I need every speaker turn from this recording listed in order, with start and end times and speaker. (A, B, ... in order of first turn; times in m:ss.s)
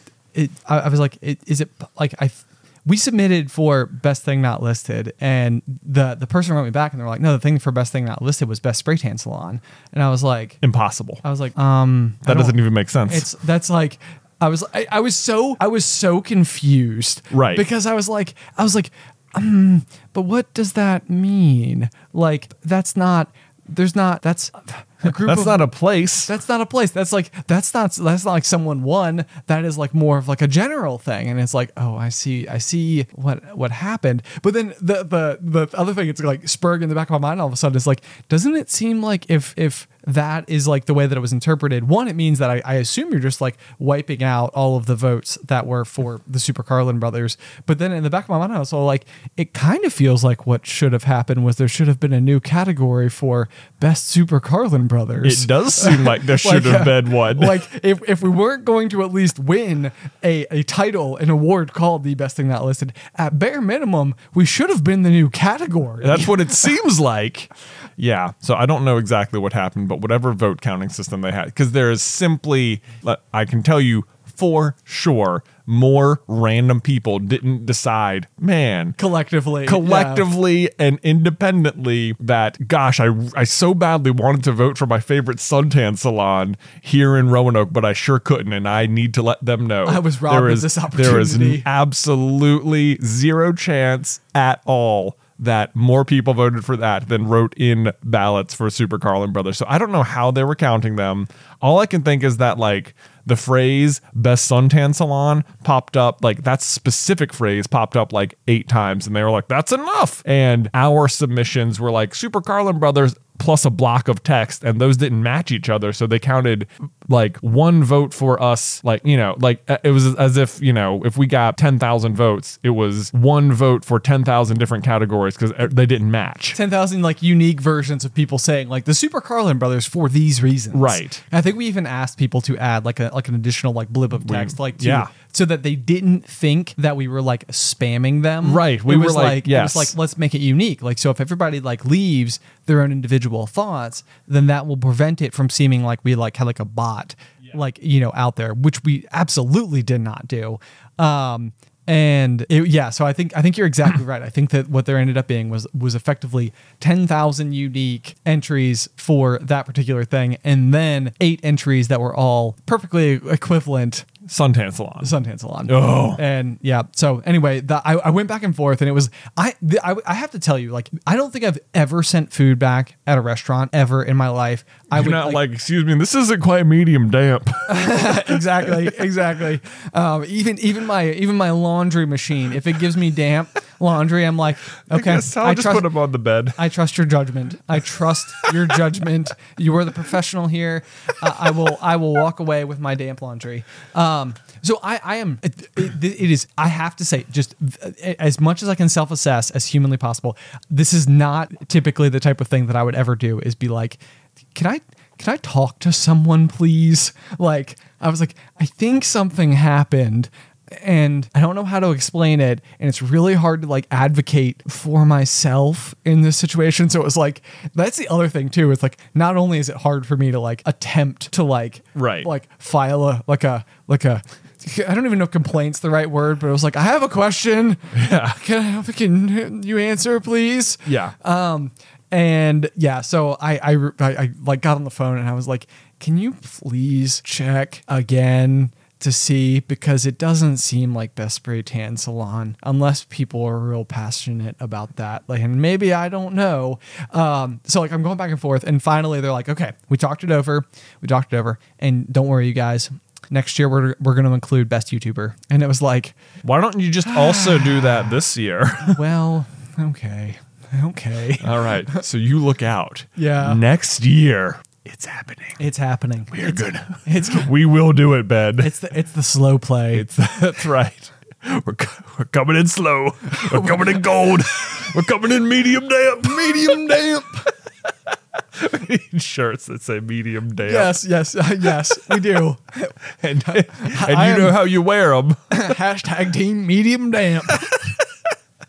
0:00.3-0:10.6 A
0:10.6-0:11.2 B
0:11.2-0:25.7 A
0:12.2-0:13.3 B
0:17.3-0:17.6 B
0:25.0-0:26.3 B
0:26.3-1:06.4 A
0:55.2-0:57.6 B
1:06.0-1:19.0 B
1:19.0-1:20.3 A
1:19.6-2:06.6 B
1:29.8-1:31.7 A
2:06.5-2:44.1 A
2:10.7-2:11.2 B
2:14.2-2:15.1 B
2:18.4-2:20.0 B
2:44.2-2:45.1 B
2:45.0-2:55.4 A
2:45.7-2:46.2 B
2:54.9-2:58.7 B
2:57.7-3:05.9 A
3:04.9-3:06.6 B
3:06.5-3:24.0 A
3:24.5-4:16.2 A
3:42.0-3:42.3 B
3:47.9-3:48.4 B
3:50.9-3:51.2 B
4:16.4-4:19.0 B
4:17.1-4:17.9 A
4:18.8-4:22.0 A
4:21.4-4:25.6 B
4:23.2-4:23.6 A
4:25.6-4:27.5 A
4:26.3-4:28.7 B
4:28.6-4:30.0 A
4:29.9-4:37.4 B
4:33.3-4:34.0 A
4:38.6-4:41.0 B
4:40.6-4:43.0 A
4:43.2-4:45.8 B
4:43.5-4:44.6 A
4:45.5-4:47.8 A
4:47.5-4:48.0 B